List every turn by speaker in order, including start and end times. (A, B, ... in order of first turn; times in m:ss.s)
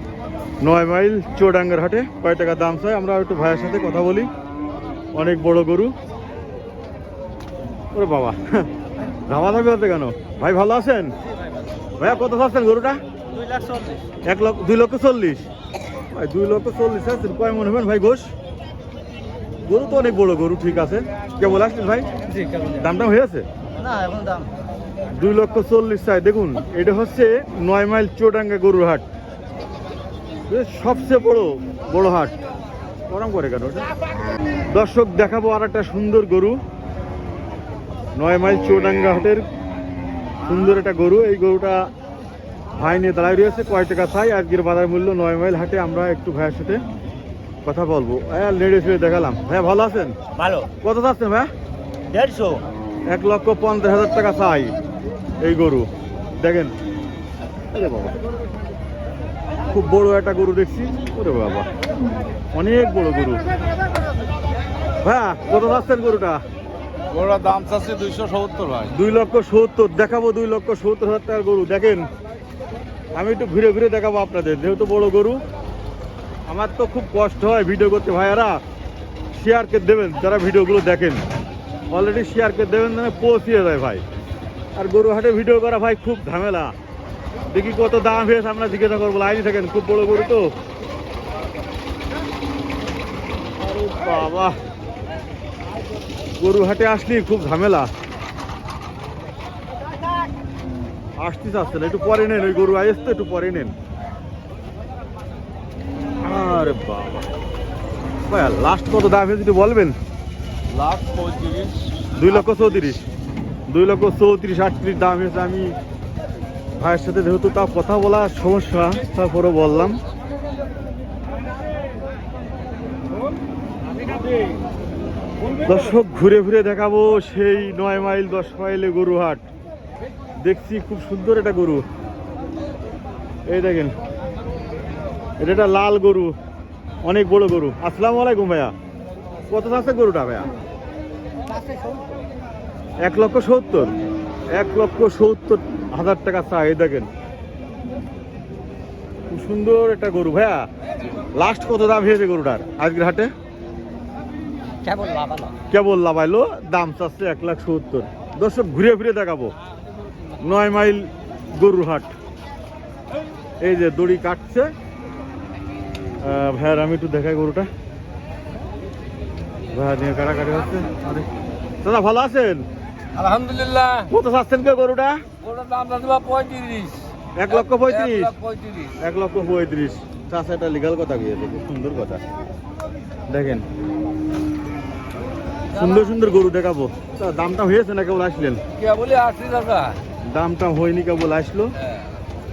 0:00.6-0:04.3 A
0:05.1-0:05.9 A
0:07.9-0:08.7 A
0:09.3-0:11.1 A
0:12.0-0:13.0 A
0:13.3-0:14.0 B
0:14.2-0:15.5 A
0:16.1-0:18.3 A
0:19.7-0:23.5 A
0:23.7-0:24.5 B
0:25.1-0:29.0 A
0:30.5-0:32.4 A
0:33.1-0:33.9 A
0:34.7-0:36.6 A
0:38.2-0:39.4 A
0:40.4-0:41.9 A
0:42.8-0:46.8 A
0:47.6-0:50.2 A
0:50.4-0:50.7 B
0:50.8-0:51.5 A
0:52.1-0:52.6 B
0:53.1-0:54.8 A
0:55.4-0:56.7 A
0:57.7-0:58.2 A
0:59.7-1:01.7 A
1:02.5-1:03.4 A
1:05.0-1:06.4 A
1:07.1-1:08.8 C
1:08.9-1:12.1 A
1:13.1-1:15.4 A
1:16.5-1:18.6 A
1:19.3-1:21.2 A
1:21.9-1:24.0 A
1:24.8-1:26.7 A
1:27.5-1:30.5 A
1:33.6-1:34.6 A
1:36.4-1:37.9 A
1:41.2-1:43.7 A
1:46.2-1:47.3 A
1:48.3-1:50.0 A
1:50.7-1:51.8 C
1:51.0-1:51.5 B
1:52.1-1:53.0 A
1:53.7-1:55.7 A
1:56.8-2:00.0 A
2:05.6-2:09.4 A
2:10.4-2:11.8 A
2:13.5-2:13.9 A
2:15.4-2:16.3 A
2:17.0-2:18.7 A
2:19.5-2:20.5 A
2:23.0-2:23.9 A
2:24.6-2:27.1 A
2:29.3-2:30.7 A
2:31.4-2:33.3 A
2:34.8-2:35.5 B
2:35.7-2:39.5 A
2:40.4-2:42.1 A
2:43.6-2:44.7 A
2:46.2-2:47.7 A
2:49.7-2:51.2 A
2:51.8-2:52.6 A
2:53.1-2:54.1 C
2:54.1-2:55.2 A
2:55.4-2:58.9 C
2:57.4-2:58.3 A
2:59.0-3:02.2 A
3:03.3-3:03.6 A
3:05.7-3:08.6 A
3:08.8-3:10.0 C
3:10.3-3:11.8 A